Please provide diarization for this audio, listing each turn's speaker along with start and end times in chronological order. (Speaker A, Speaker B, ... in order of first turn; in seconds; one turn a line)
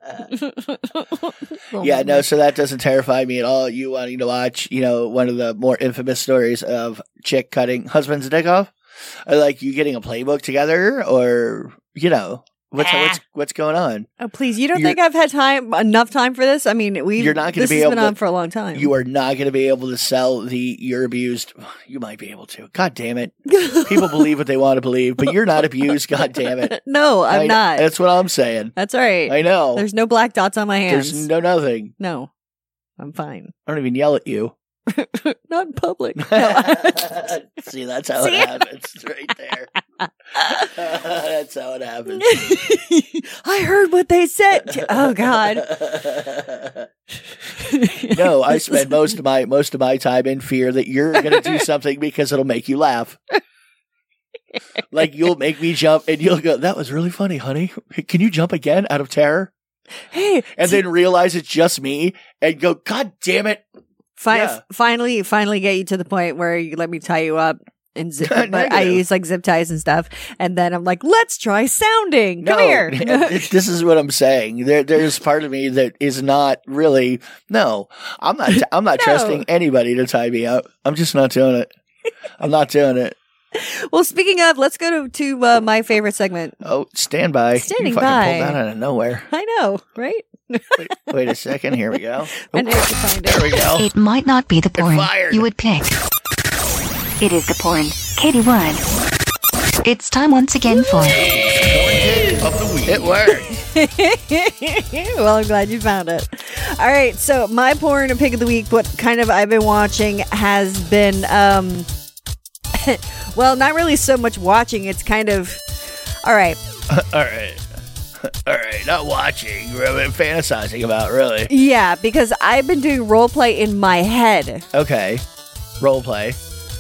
Speaker A: 0.3-2.3
Speaker B: 1.8-8.7
Speaker B: 9.2-14.1
Speaker A: 12.8-13.2
Speaker A: 14.2-18.9
Speaker B: 14.7-15.0
Speaker B: 17.2-18.2
Speaker B: 18.7-26.8
Speaker A: 23.5-24.3
Speaker A: 26.4-27.9
Speaker B: 27.3-28.8
Speaker A: 28.8-31.3
Speaker B: 29.3-29.9
Speaker B: 30.9-31.9
Speaker A: 32.0-32.3
Speaker A: 33.0-33.5
Speaker B: 33.7-34.5
Speaker A: 34.9-37.3
Speaker B: 36.2-39.7
Speaker A: 38.2-38.6
Speaker A: 40.0-40.7
Speaker B: 40.4-42.4
Speaker A: 42.1-45.7
Speaker B: 44.7-46.9
Speaker A: 47.6-49.0
Speaker B: 48.1-53.2
Speaker A: 51.2-51.6
Speaker B: 54.9-59.5
Speaker A: 60.1-60.8
Speaker B: 60.5-63.6
Speaker A: 64.2-73.5
Speaker B: 64.3-64.6
Speaker B: 68.2-69.0
Speaker B: 72.4-81.7
Speaker A: 78.5-79.5
Speaker B: 82.4-83.2
Speaker A: 83.5-86.6
Speaker B: 86.6-89.3
Speaker A: 87.6-88.6
Speaker A: 89.3-91.1
Speaker B: 90.8-93.9
Speaker A: 92.3-93.7
Speaker C: 93.8-96.0
Speaker B: 94.8-95.5
Speaker C: 97.2-98.9
Speaker C: 99.8-101.3
Speaker B: 101.1-103.6
Speaker A: 103.3-111.9
Speaker A: 112.7-115.6
Speaker A: 116.2-116.6
Speaker B: 116.9-117.6
Speaker B: 118.2-121.5
Speaker A: 121.5-124.7
Speaker B: 124.7-125.2
Speaker B: 125.8-126.4